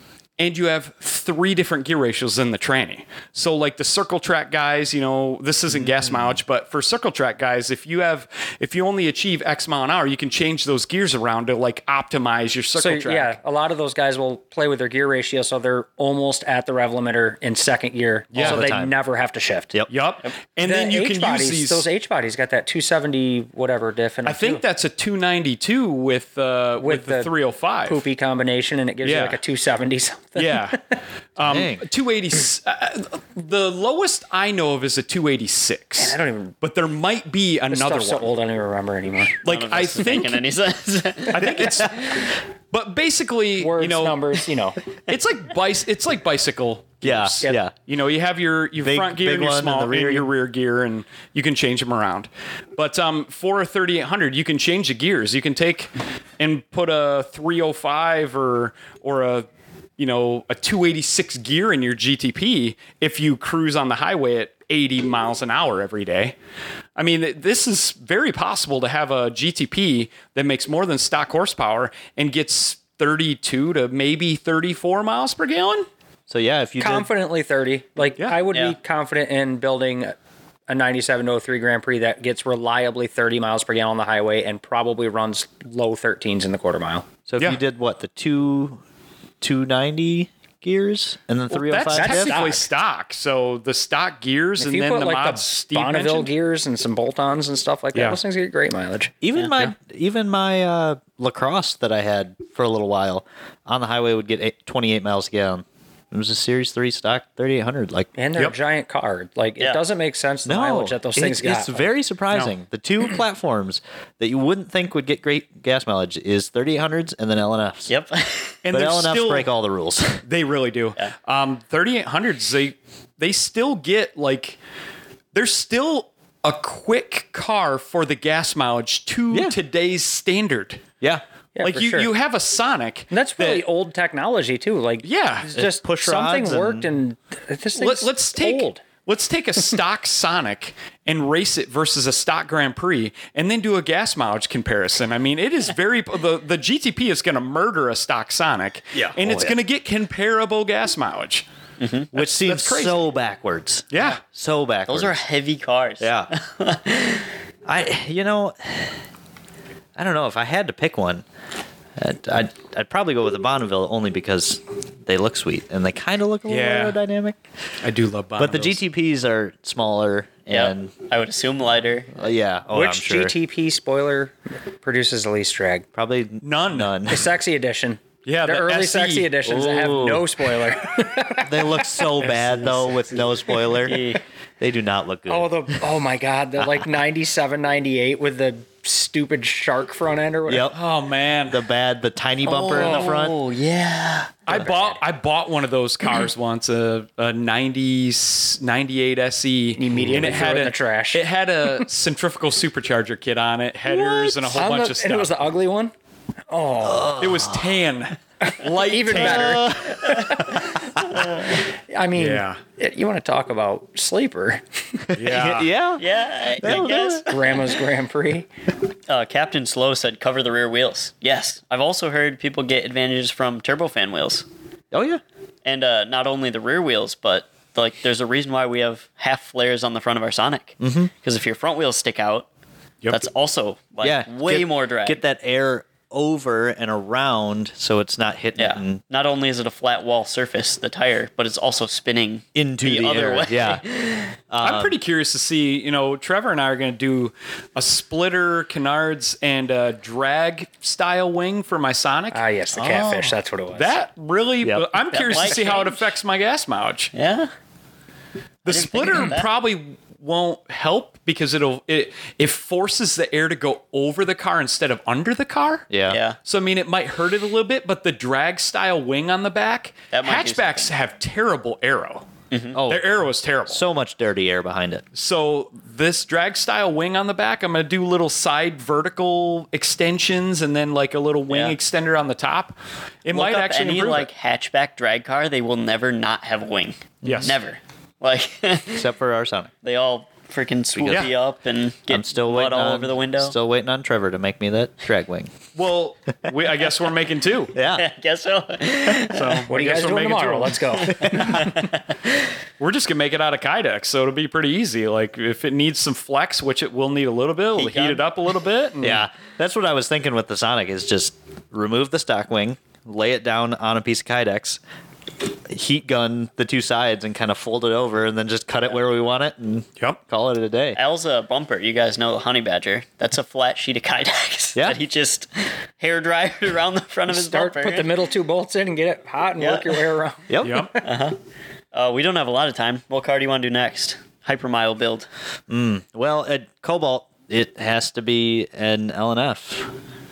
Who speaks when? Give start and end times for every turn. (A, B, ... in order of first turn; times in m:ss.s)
0:00.4-0:13.3 A
0:05.7-0:06.4 B
0:12.7-0:19.7 C
0:18.3-0:18.6 A
0:18.4-0:18.9 B
0:19.9-0:21.9 A
0:20.6-0:24.6 C
0:24.2-0:28.0 A
0:26.8-0:27.3 C
0:27.8-0:30.8 C
0:29.0-0:29.4 A
0:30.4-0:30.8 A
0:31.4-0:38.3 A
0:31.4-0:31.8 B
0:36.0-0:36.5 C
0:37.7-0:39.4 C
0:39.4-0:40.4 A
0:39.4-0:42.0 D
0:41.3-0:44.2 A
0:43.6-0:44.8 C
0:45.1-1:06.4 A
0:47.0-0:47.7 B
0:48.8-0:50.3 B
1:07.0-1:15.9 A
1:16.3-1:17.1 B
1:16.8-1:20.1 C
1:20.7-1:27.0 C
1:27.3-1:28.8 B
1:29.4-1:32.5 B
1:31.5-1:36.3 A
1:31.9-1:32.6 C
1:34.6-1:39.1 C
1:39.2-1:48.1 B
1:48.2-1:51.9 C
1:50.4-1:57.9 B
1:57.9-1:58.6 D
1:58.6-1:59.5 A
1:58.7-2:00.2 B
2:00.2-2:04.6 A
2:05.3-2:10.8 A
2:11.6-2:12.1 C
2:11.6-2:13.6 A
2:13.1-2:18.8 C
2:15.0-2:15.5 A
2:15.5-2:16.9 B
2:17.8-2:31.4 A
2:28.9-2:29.6 B
2:31.8-2:32.1 D
2:32.1-2:35.2 B
2:32.1-2:33.0 A
2:33.9-2:34.2 A
2:34.9-2:37.3 D
2:36.0-2:36.3 B
2:37.6-2:39.0 B
2:40.0-2:41.2 B
2:42.0-2:47.4 B
2:46.5-2:47.0 A
2:47.8-2:48.8 A
2:48.4-2:50.9 B
2:50.5-2:52.3 D
2:52.1-2:53.3 B
2:52.7-2:55.8 C
2:55.9-2:57.3 B
2:56.4-2:56.9 A
2:57.1-3:02.1 C
2:58.2-2:59.3 A
2:59.4-3:00.5 B
3:01.4-3:05.5 B
3:02.2-3:03.1 A
3:03.8-3:04.2 D
3:05.3-3:10.7 C
3:10.5-3:10.8 B
3:10.7-3:11.6 A
3:11.5-3:13.4 B
3:12.4-3:14.4 D
3:14.4-3:25.3 A
3:14.5-3:15.0 C
3:19.8-3:21.2 C
3:20.0-3:20.4 B
3:23.8-3:24.7 B
3:24.5-3:25.9 C
3:26.5-3:27.2 C
3:26.8-3:27.8 B
3:27.2-3:29.7 A
3:28.5-3:30.6 C
3:29.1-3:30.6 B
3:31.1-3:31.6 D
3:31.9-3:35.1 C
3:32.2-3:32.6 A
3:35.1-3:36.0 B
3:35.1-3:35.7 A
3:36.0-3:37.8 D
3:36.6-3:37.2 B
3:37.3-3:38.5 C
3:39.1-3:44.4 D
3:44.9-3:45.2 B
3:45.6-3:52.5 D
3:50.8-3:51.1 B
3:53.1-3:55.2 D
3:54.0-3:59.0 B
3:58.5-4:04.4 D
4:02.5-4:03.8 B
4:04.5-4:05.0 B
4:04.6-4:12.4 A
4:12.3-4:14.0 C
4:12.8-4:13.3 D
4:13.7-4:17.1 A
4:14.6-4:14.9 B
4:15.1-4:16.1 D
4:17.1-4:17.5 D
4:18.6-4:25.9 A
4:18.6-4:19.5 D
4:25.9-4:26.2 B
4:26.1-4:26.4 D
4:26.4-4:32.3 A
4:30.1-4:30.9 D
4:32.5-4:32.8 D
4:32.7-4:33.1 B
4:32.9-4:33.8 A
4:33.7-4:35.0 B
4:35.1-4:44.3 A
4:41.5-4:41.8 D
4:43.3-4:49.1 D
4:47.2-4:47.6 B
4:47.2-4:47.6 A
4:48.9-4:49.7 B
4:49.8-4:53.5 D
4:50.9-4:51.3 B
4:52.1-4:55.5 B
4:55.7-4:57.7 A
4:57.7-4:58.0 B
4:57.9-4:59.7 D
4:59.2-5:01.7 A
4:59.7-5:01.6 C
5:01.1-5:01.6 B
5:01.2-5:02.4 D
5:02.8-5:09.2 A
5:07.7-5:08.2 D
5:09.0-5:14.8 B
5:15.7-5:21.0 B
5:21.0-5:28.2 D
5:27.3-5:31.0 C
5:29.6-5:30.0 D
5:30.5-5:30.9 B
5:30.6-5:30.9 A
5:31.0-5:31.4 D
5:31.9-5:35.3 D
5:35.7-5:39.9 B